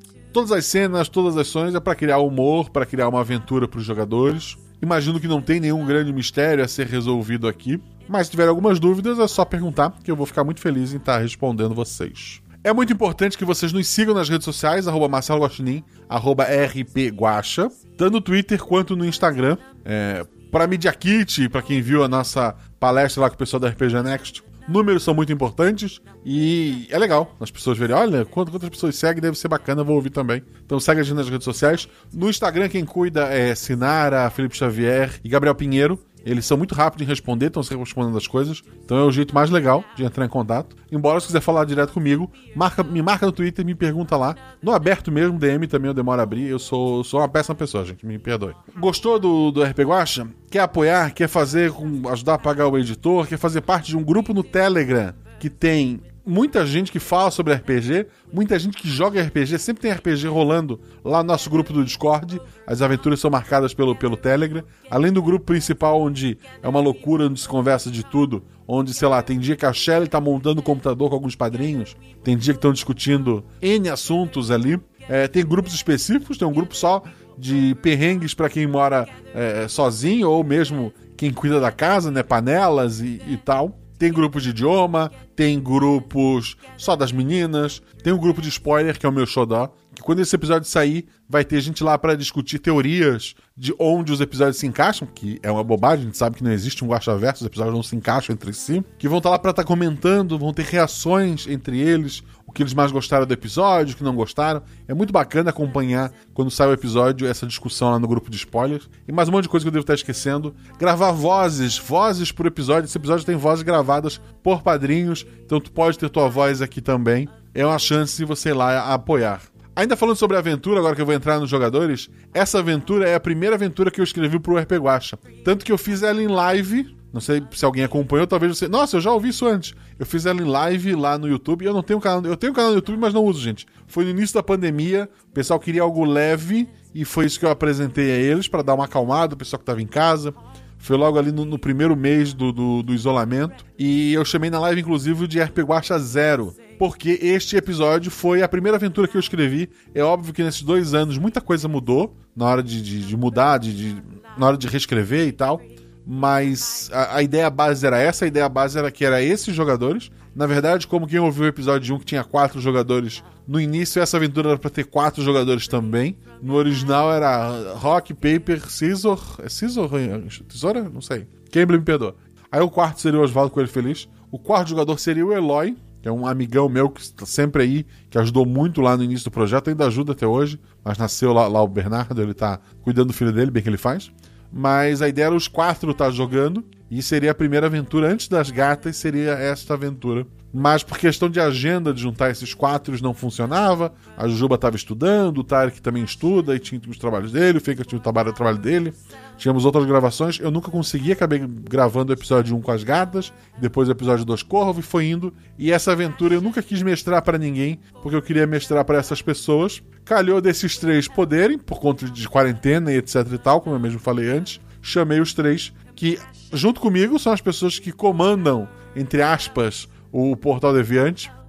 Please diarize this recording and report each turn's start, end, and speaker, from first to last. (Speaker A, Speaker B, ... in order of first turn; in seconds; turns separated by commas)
Speaker A: 0.3-221.3